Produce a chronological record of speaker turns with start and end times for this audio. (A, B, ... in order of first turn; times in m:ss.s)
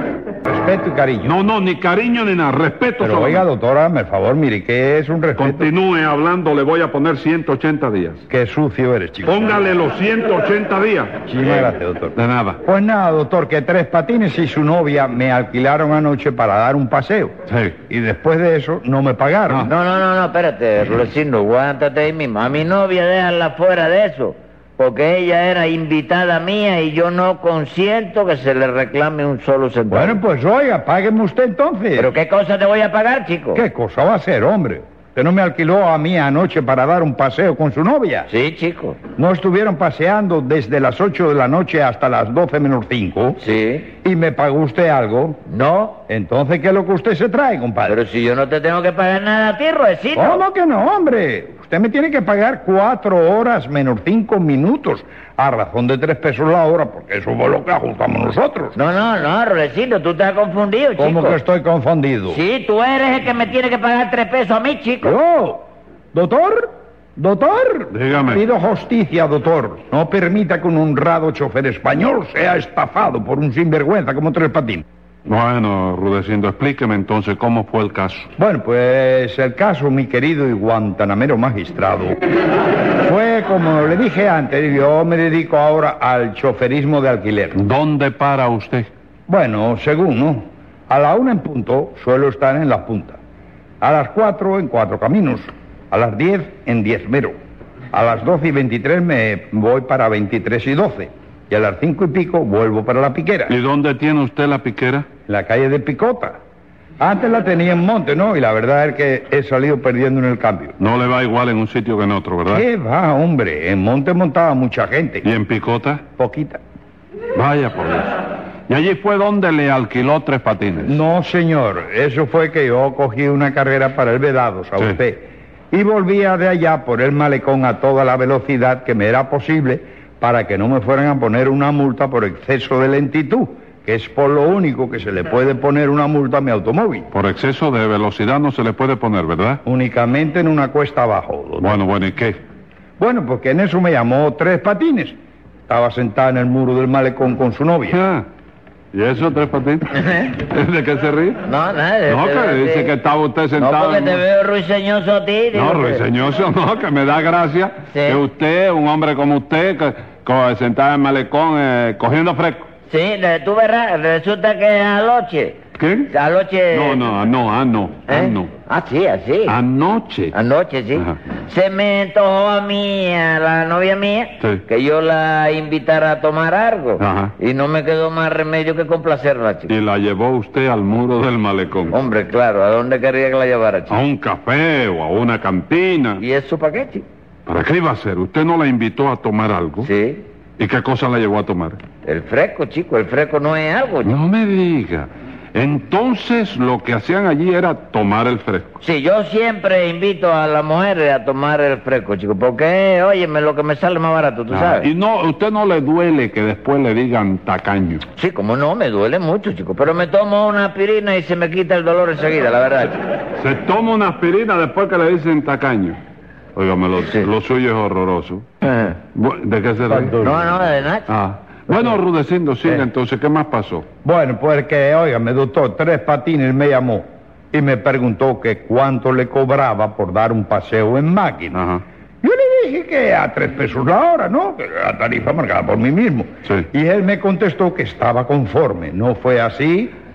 0:00.4-0:01.4 A
0:01.2-0:03.4 B
0:03.0-0:05.7 A
0:05.4-0:08.2 B
0:08.3-0:09.6 A
0:09.2-0:12.6 B
0:11.3-0:19.7 A
0:17.5-0:17.8 B
0:19.7-0:30.2 C
0:29.9-0:32.1 A
0:32.0-0:33.6 C
0:33.6-0:38.3 A
0:38.3-0:39.0 C
0:39.2-0:43.4 A
0:43.4-0:43.9 C
0:44.0-0:45.4 A
0:45.5-0:46.0 C
0:46.1-0:48.0 A
0:47.9-0:50.4 C
0:50.2-0:58.8 A
0:58.8-1:01.4 C
1:01.0-1:02.4 A
1:02.3-1:05.2 C
1:05.0-1:05.6 A
1:06.1-1:14.8 A
1:07.9-1:08.4 B
1:15.3-1:18.3 B
1:18.4-1:22.2 A
1:23.0-1:27.6 A
1:27.6-1:28.9 B
1:29.3-1:33.2 A
1:33.8-1:37.4 A
1:37.9-1:43.6 A
1:43.5-1:45.1 B
1:45.3-1:46.4 A
1:47.0-1:50.8 A
1:50.8-1:52.7 B
1:52.5-1:55.3 A
1:55.2-1:56.0 B
1:56.2-1:56.6 A
1:57.4-2:01.0 B
2:00.9-2:17.1 A
2:17.1-2:19.6 B
2:19.6-2:21.8 A
2:21.6-2:22.4 B
2:23.0-2:25.2 A
2:25.7-2:28.0 A
2:27.9-2:28.3 B
2:28.9-2:31.4 B
2:29.9-2:30.3 C
2:31.5-2:32.9 C
2:32.1-2:34.2 B
2:33.6-2:36.0 C
2:35.5-2:42.7 B
2:37.9-2:38.2 C
2:42.9-2:47.1 C
2:45.8-2:46.1 B
2:46.7-2:48.5 B
2:48.1-2:49.6 C
2:49.5-2:50.4 B
2:50.3-2:59.7 C
2:57.0-2:57.3 B
2:59.7-3:02.0 B
3:01.9-3:04.0 C
3:03.9-3:06.2 B
3:06.2-3:07.0 C
3:07.5-3:09.9 B
3:09.8-3:10.2 C
3:10.6-3:11.8 B
3:12.0-3:14.2 C
3:14.0-3:18.8 B
3:18.8-3:24.9 C
3:24.5-3:28.0 B
3:28.2-3:33.0 C
3:33.4-3:36.0 B
3:36.6-3:38.5 B
3:38.6-3:39.0 C
3:39.1-3:40.4 B
3:40.2-3:41.1 C
3:41.1-3:43.9 B
3:44.0-3:51.6 A
3:51.5-3:51.8 B
3:52.2-3:59.9 A